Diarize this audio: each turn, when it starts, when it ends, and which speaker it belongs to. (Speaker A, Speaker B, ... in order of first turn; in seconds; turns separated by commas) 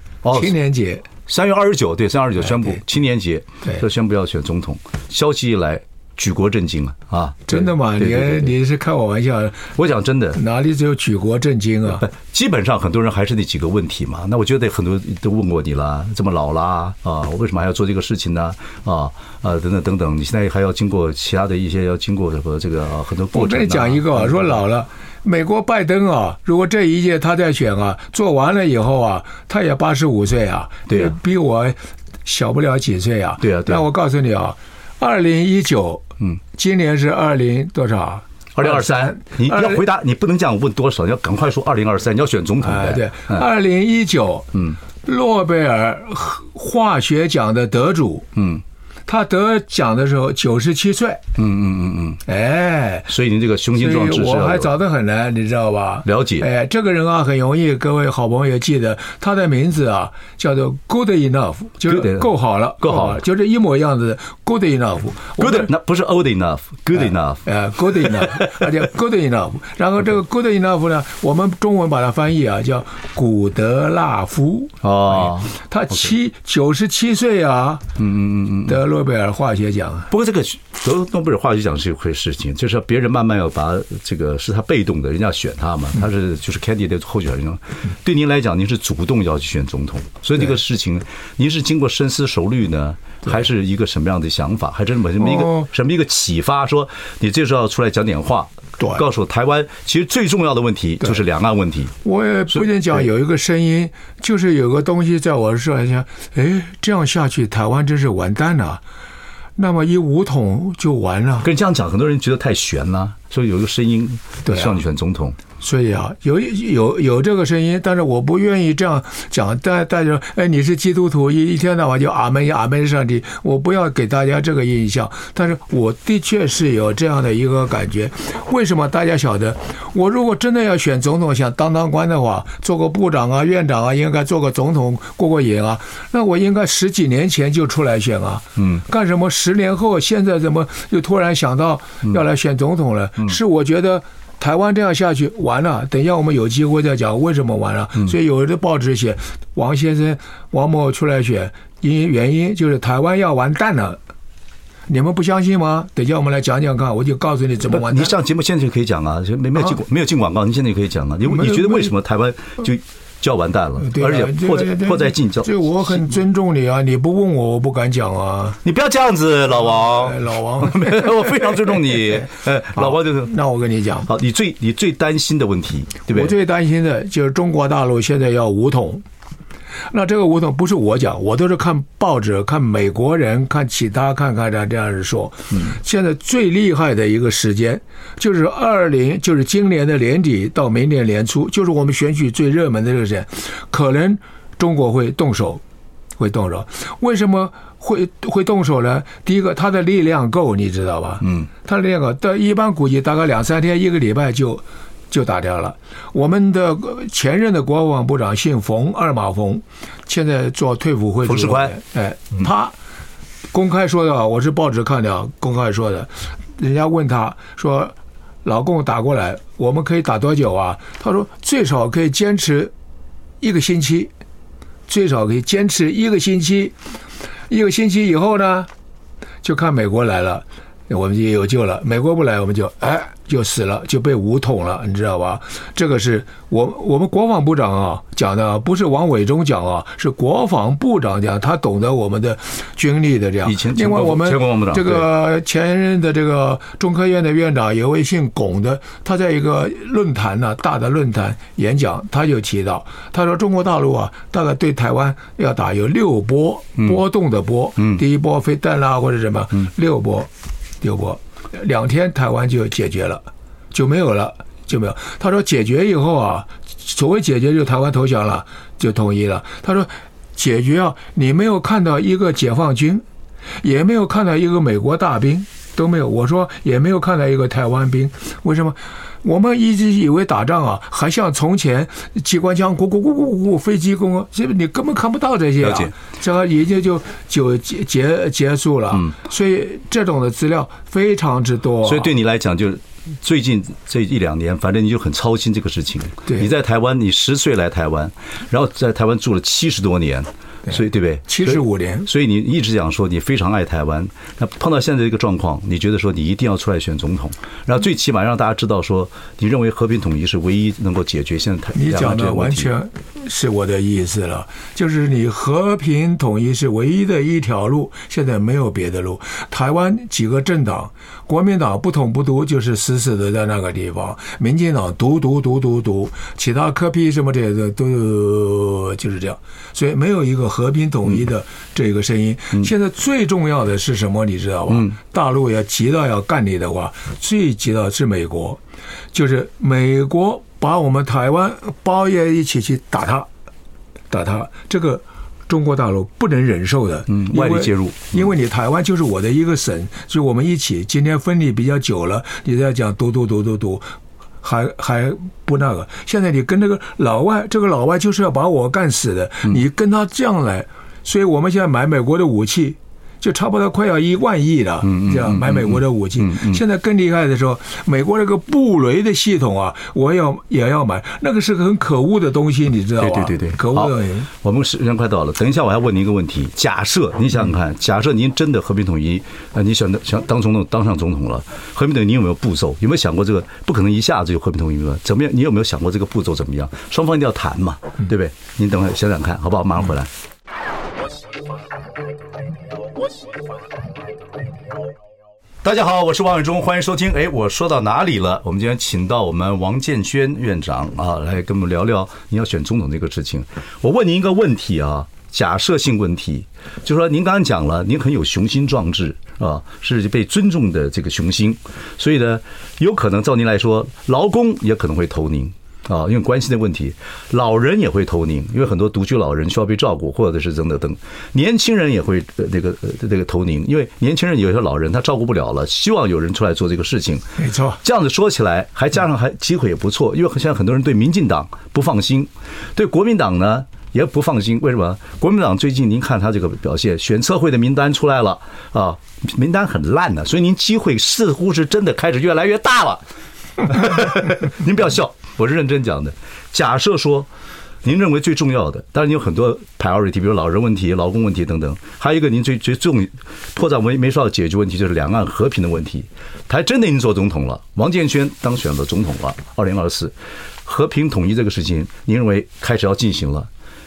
Speaker A: 0.2-0.5, Speaker B: 0.3-1.1, Speaker A: 1.2-8.5, Speaker B: 7.5-9.7, Speaker A: 9.8-10.4, Speaker B: 10.3-12.0, Speaker A: 11.9-24.6, Speaker B: 23.3-39.8, Speaker A: 30.9-31.1, Speaker A: 33.4-33.8, Speaker A: 38.5-43.5, Speaker B: 42.6-48.3, Speaker A: 48.4-48.6, Speaker B: 49.1-51.2, Speaker A: 51.4-52.2, Speaker B: 52.2-53.1, Speaker A: 53.1-54.7, Speaker B: 53.8-65.7, Speaker A: 56.0-56.5, Speaker A: 61.9-62.3, Speaker A: 62.8-63.2, Speaker A: 65.4-67.4, Speaker B: 67.4-77.8, Speaker A: 68.0-68.7, Speaker A: 74.8-76.1, Speaker A: 78.0-78.7, Speaker B: 78.6-80.1, Speaker A: 80.1-101.9, Speaker B: 95.2-95.7, Speaker B: 98.8-99.0, Speaker B: 102.0-108.8, Speaker B: 109.6-111.5, Speaker A: 111.4-115.4, Speaker B: 114.4-114.8, Speaker B: 115.6-154.0, Speaker B: 154.9-158.1, Speaker A: 157.7-166.0, Speaker B: 161.2-161.9, Speaker B: 163.8-168.6, Speaker A: 168.6-173.3, Speaker B: 169.6-171.7, Speaker B: 172.7-174.1, Speaker A: 174.1-176.3, Speaker B: 176.1-179.0, Speaker B: 179.9-195.6, Speaker B: 196.2-212.7, Speaker A: 211.2-211.7, Speaker B: 213.5-217.9, Speaker B: 218.4-222.7, Speaker B: 223.4-224.1, Speaker B: 224.9-226.7, Speaker B: 227.5-228.7, Speaker B: 229.4-260.3, Speaker A: 243.4-245.1, Speaker B: 260.8-273.0, Speaker B: 273.6-292.1, Speaker A: 285.6-285.9, Speaker A: 291.8-312.7, Speaker B: 301.3-302.1, Speaker B: 311.7-338.6, Speaker A: 334.7-334.9, Speaker B: 339.1-343.3, Speaker B: 344.1-374.3, Speaker A: 347.1-348.1, Speaker A: 364.8-366.6, Speaker A: 373.0-390.1, Speaker A: 395.6-427.2, Speaker B: 427.4-427.8, Speaker A: 427.8-443.0, Speaker A: 443.6-447.3, Speaker A: 447.8-460.1, Speaker A: 460.6-463.5